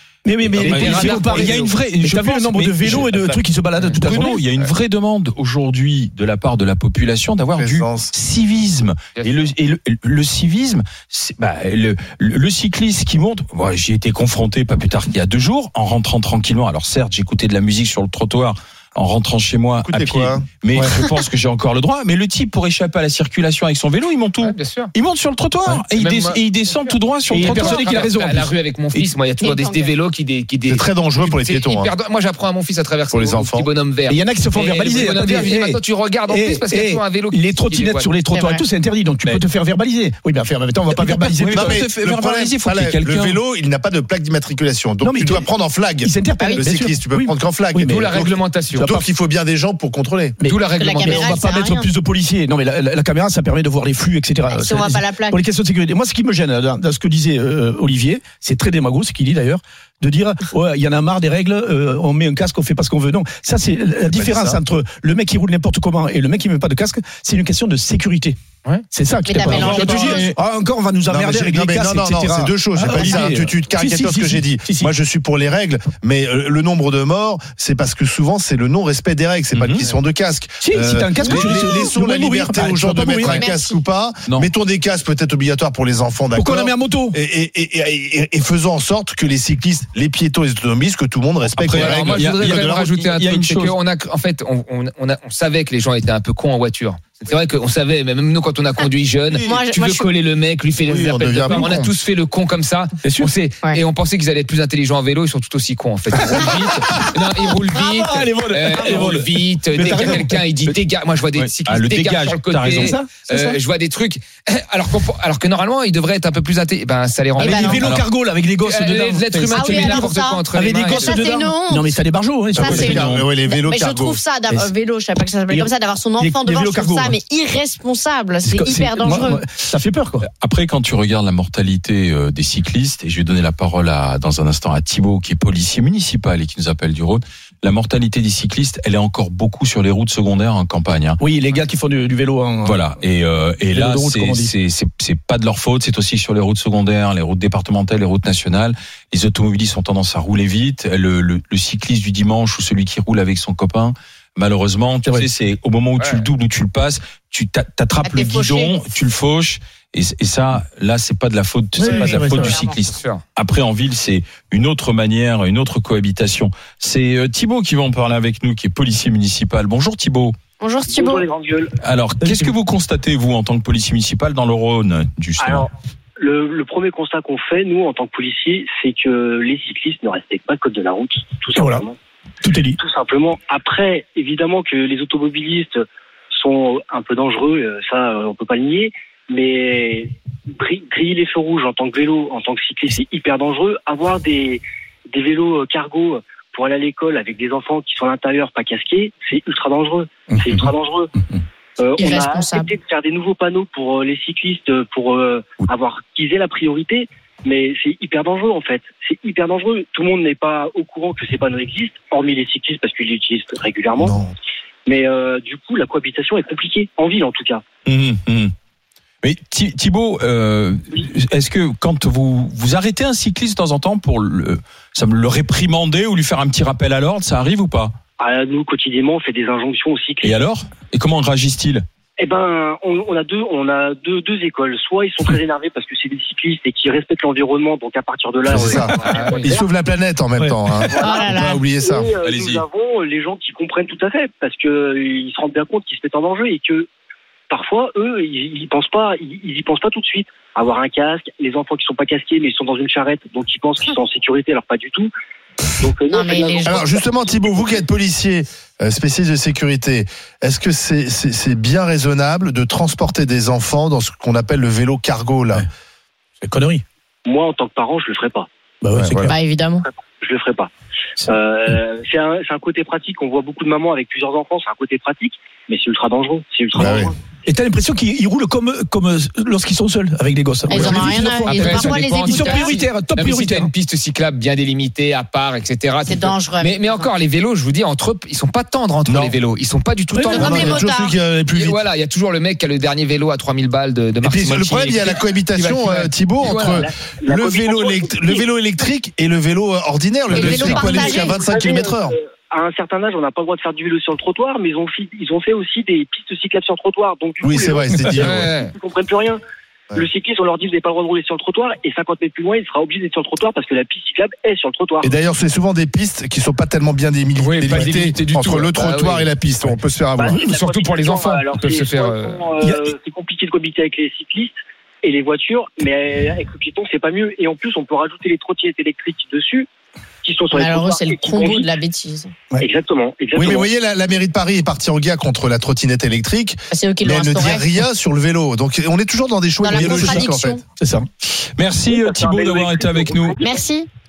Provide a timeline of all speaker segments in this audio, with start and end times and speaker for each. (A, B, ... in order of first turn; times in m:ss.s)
0:00.2-0:04.4 A
0:00.6-0:03.3 B
0:00.6-0:01.8 C
0:03.8-0:04.7 C
0:04.0-0:28.1 B
0:07.6-0:08.1 D
0:09.2-0:09.5 C
0:19.8-0:21.0 D
0:24.4-0:24.9 C
0:25.9-0:38.1 C
0:27.3-0:29.1 A
0:29.4-0:29.9 E
0:30.7-0:31.9 D
0:33.1-0:33.7 D
0:34.1-0:41.8 A
0:38.3-0:38.6 E
0:40.9-0:43.4 B
0:41.5-0:50.4 D
0:45.0-0:48.1 A
0:46.4-0:46.7 E
0:47.9-0:48.9 C
0:48.8-0:49.0 A
0:50.4-1:08.4 A
0:50.4-0:51.4 C
0:50.8-0:51.9 E
0:54.5-0:55.4 E
1:04.1-1:04.6 D
1:08.9-1:14.9 A
1:09.3-1:10.3 E
1:09.5-1:10.2 D
1:09.5-1:10.3 B
1:11.1-1:32.9 D
1:19.5-1:19.9 B
1:20.6-1:23.4 A
1:23.3-1:23.8 E
1:26.3-1:27.2 A
1:31.6-1:33.8 B
1:31.7-1:57.9 C
1:39.4-1:40.1 E
1:40.9-1:41.9 D
1:43.0-1:43.3 A
1:46.2-1:47.0 A
1:47.8-1:50.8 A
1:51.4-1:53.5 B
1:52.7-1:53.4 A
1:57.4-2:02.8 A
1:57.4-1:57.8 E
1:57.7-1:58.1 B
1:58.6-2:01.2 C
1:59.5-2:01.9 E
2:02.6-2:04.2 D
2:02.6-2:09.4 E
2:02.6-2:03.3 B
2:05.5-2:07.2 A
2:08.4-2:10.3 A
2:10.2-2:21.2 B
2:21.2-2:22.8 A
2:22.6-2:50.4 B
2:23.7-2:24.5 A
2:36.0-2:36.3 C
2:38.0-2:38.8 E
2:41.8-2:42.6 A
2:41.9-2:42.8 E
2:42.3-2:43.2 C
2:50.6-2:51.3 E
2:50.9-2:51.7 F
2:51.8-2:55.7 B
2:52.2-2:52.5 A
2:55.4-3:02.0 F
3:01.5-3:01.9 A
3:02.4-3:02.8 A
3:02.8-3:21.1 F
3:20.4-3:20.6 A
3:21.8-3:34.2 F
3:22.0-3:22.7 E
3:34.0-3:34.3 D
3:34.9-3:37.6 F
3:37.9-3:38.5 B
3:39.2-3:48.0 B
3:48.2-3:50.4 F
3:50.2-3:51.8 B
3:52.2-3:59.6 F
3:58.5-4:02.1 D
3:59.0-3:59.6 C
4:00.8-4:06.9 F
4:01.0-4:01.6 E
4:02.2-4:02.6 B
4:07.5-4:15.1 F
4:15.8-4:17.8 F
4:16.1-4:16.8 E
4:16.7-4:25.7 D
4:26.4-4:26.8 A
4:27.2-4:28.5 F
4:28.8-4:29.3 A
4:29.0-4:29.3 D
4:29.2-4:29.9 E
4:29.8-4:37.1 F
4:36.8-4:37.1 D
4:37.4-4:43.7 A
4:40.7-4:42.7 E
4:41.5-4:50.8 C
4:46.1-4:47.1 E
4:49.1-4:49.4 D
4:50.1-4:50.6 A
4:50.2-4:51.2 E
4:50.3-4:51.8 D
4:51.5-4:56.9 C
4:54.2-5:02.1 D
4:56.9-4:58.4 F
5:00.3-5:01.9 E
5:00.4-5:09.4 F
5:07.4-5:08.5 D
5:08.2-5:08.8 C
5:10.0-5:15.1 F
5:15.0-5:20.4 D
5:17.4-5:19.3 C
5:17.7-5:18.0 A
5:20.2-5:29.7 F
5:20.3-5:22.5 C
5:22.6-5:23.0 A
5:30.2-5:31.7 F
5:30.5-5:32.3 E
5:32.6-5:33.7 F
5:33.4-5:40.6 D
5:36.7-5:37.7 E
5:39.6-5:40.6 E
5:40.8-5:41.1 A
5:41.2-5:43.4 B
5:41.9-5:43.6 F
5:43.4-5:43.9 E